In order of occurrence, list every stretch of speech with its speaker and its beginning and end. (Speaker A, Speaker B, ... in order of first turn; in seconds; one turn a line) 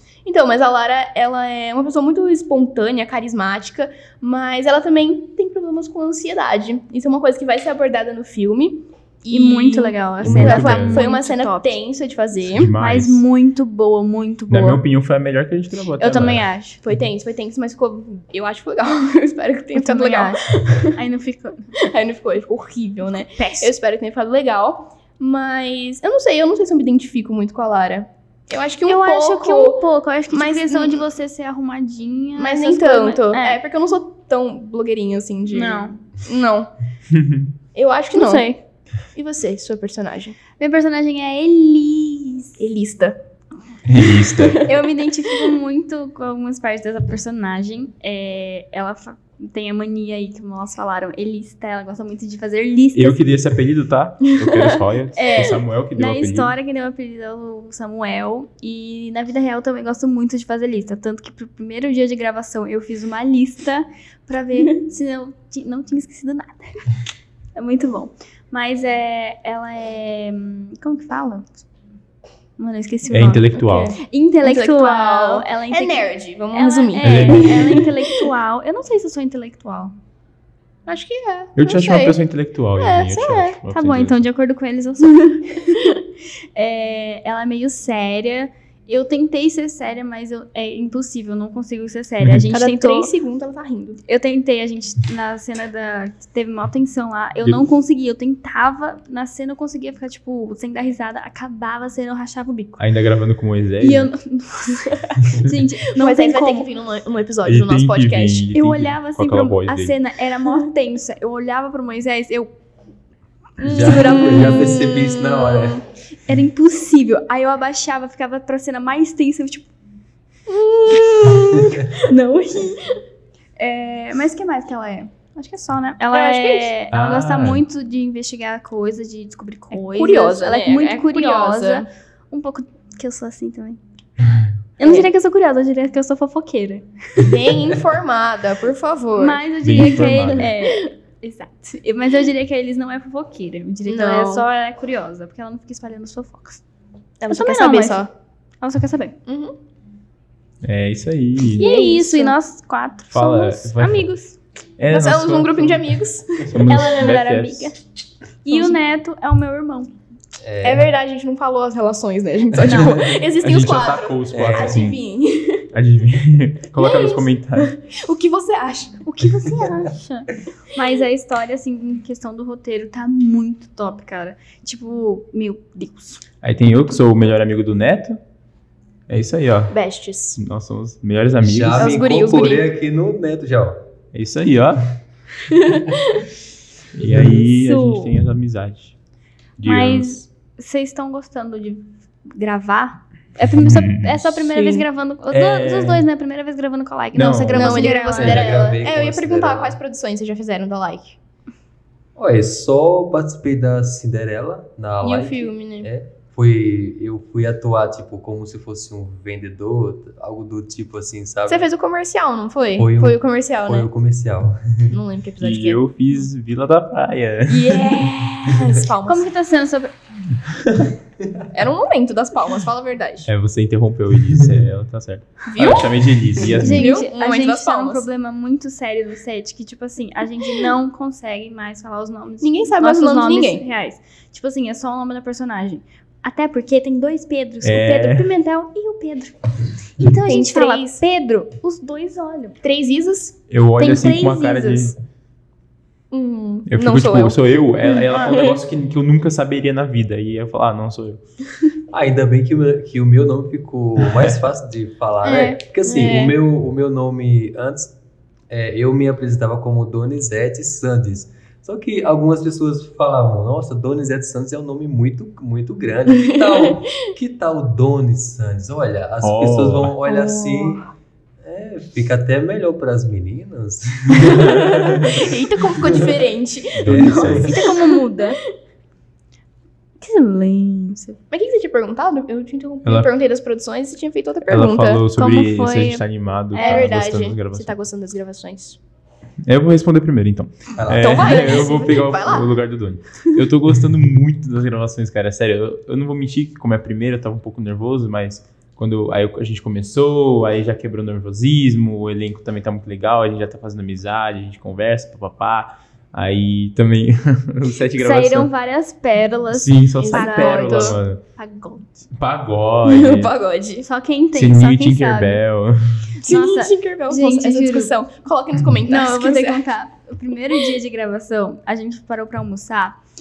Speaker A: 0.2-12.7
Speaker B: 9.3-11.8
Speaker C: 10.2-11.1
Speaker C: 12.5-13.2
Speaker B: 12.8-14.8
Speaker C: 14.5-16.4
Speaker B: 16.0-16.8
Speaker A: 16.8-20.9
Speaker B: 19.7-21.7
Speaker A: 21.8-31.0
Speaker B: 23.4-23.7
Speaker B: 28.9-33.6
Speaker A: 32.4-36.7
Speaker B: 35.5-36.0
Speaker C: 37.1-37.5
Speaker A: 37.7-38.6
Speaker B: 38.1-38.6
Speaker A: 39.1-40.4
Speaker B: 40.6-42.6
Speaker A: 42.6-43.2
Speaker C: 43.9-44.6
Speaker A: 44.2-44.9
Speaker B: 44.6-53.2
Speaker C: 52.9-56.5
Speaker A: 54.4-55.6
Speaker B: 55.2-66.9
Speaker B: 67.5-71.6
Speaker B: 72.6-73.4
Speaker C: 73.1-74.0
Speaker A: 73.5-77.9
Speaker B: 74.0-79.9
Speaker C: 77.0-77.9
Speaker A: 80.9-82.2
Speaker C: 81.6-84.2
Speaker A: 82.8-83.5
Speaker B: 83.2-85.9
Speaker B: 86.5-93.1
Speaker A: 92.5-94.0
Speaker B: 94.0-102.8
Speaker C: 102.8-104.1
Speaker B: 103.8-106.7
Speaker A: 106.0-108.5
Speaker C: 107.4-110.0
Speaker B: 108.5-112.5
Speaker A: 113.6-115.8
Speaker B: 113.6-114.8
Speaker D: 113.6-115.8
Speaker B: 116.3-119.7
Speaker A: 120.5-122.1
Speaker B: 122.0-122.8
Speaker B: 123.6-133.8
Speaker A: 126.1-126.7
Speaker C: 126.9-127.6
Speaker A: 129.7-131.9
Speaker B: 134.8-137.3
Speaker A: 134.8-135.1
Speaker A: 137.2-140.9
Speaker B: 139.2-146.6
Speaker C: 139.6-140.5
Speaker A: 143.9-144.4
Speaker A: 147.2-148.1
Speaker B: 147.3-148.1
Speaker B: 148.6-149.1
Speaker A: 149.2-149.5
Speaker C: 150.6-151.6
Speaker B: 151.5-154.4
Speaker A: 151.5-152.3
Speaker C: 153.1-154.1
Speaker C: 154.8-157.7
Speaker A: 154.9-156.6
Speaker B: 156.6-157.8
Speaker B: 158.4-159.9
Speaker A: 158.5-158.8
Speaker D: 160.4-160.9
Speaker A: 160.6-165.7
Speaker B: 162.6-162.9
Speaker D: 162.8-163.2
Speaker C: 163.4-165.0
Speaker D: 164.3-164.8
Speaker C: 165.7-167.7
Speaker A: 166.8-169.0
Speaker B: 169.0-176.2
Speaker C: 176.4-178.2
Speaker C: 179.1-179.7
Speaker A: 179.7-180.4
Speaker C: 180.4-182.0
Speaker D: 181.4-183.8
Speaker A: 181.7-182.7
Speaker C: 184.1-184.9
Speaker A: 185.5-186.2
Speaker C: 186.9-188.9
Speaker B: 187.4-188.1
Speaker C: 189.6-190.2
Speaker B: 189.6-198.7
Speaker C: 193.4-196.0
Speaker C: 197.1-197.9
Speaker A: 197.5-201.2
Speaker D: 198.1-199.8
Speaker D: 202.2-211.7
Speaker A: 205.0-205.9
Speaker A: 211.5-213.9
Speaker D: 212.8-214.9
Speaker A: 214.9-215.8
Speaker C: 215.4-217.7
Speaker B: 217.5-219.9
Speaker A: 217.6-219.3
Speaker A: 221.5-223.3
Speaker C: 223.2-227.0
Speaker D: 224.3-224.7
Speaker A: 225.5-225.9
Speaker A: 226.5-228.0
Speaker B: 226.6-242.6
Speaker A: 232.4-233.6
Speaker C: 237.6-238.3
Speaker A: 240.2-241.0
Speaker A: 242.6-243.3
Speaker C: 243.5-245.0
Speaker B: 243.8-244.9
Speaker A: 246.1-248.6
Speaker C: 246.7-251.2
Speaker D: 251.9-257.9
Speaker B: 255.2-255.6
Speaker A: 255.3-256.3
Speaker D: 258.5-270.8
Speaker C: 269.2-269.9
Speaker B: 270.0-270.8
Speaker D: 271.4-275.2
Speaker A: 274.4-278.3
Speaker D: 275.8-276.1
Speaker C: 276.8-277.5
Speaker D: 276.8-277.7
Speaker B: 277.4-278.4
Speaker B: 280.0-281.2
Speaker A: 281.3-285.0
Speaker C: 282.8-283.1
Speaker C: 284.5-287.7
Speaker B: 285.1-286.9
Speaker A: 286.6-288.8
Speaker C: 289.4-308.5
Speaker D: 290.8-291.5
Speaker A: 290.9-292.5
Speaker B: 308.0-311.9
Speaker C: 309.5-311.2
Speaker A: 310.0-311.0
Speaker C: 312.1-313.3
Speaker A: 312.9-313.9
Speaker B: 313.8-315.4
Speaker C: 314.3-316.1
Speaker A: 316.2-319.6
Speaker B: 316.2-317.9
Speaker B: 318.9-323.0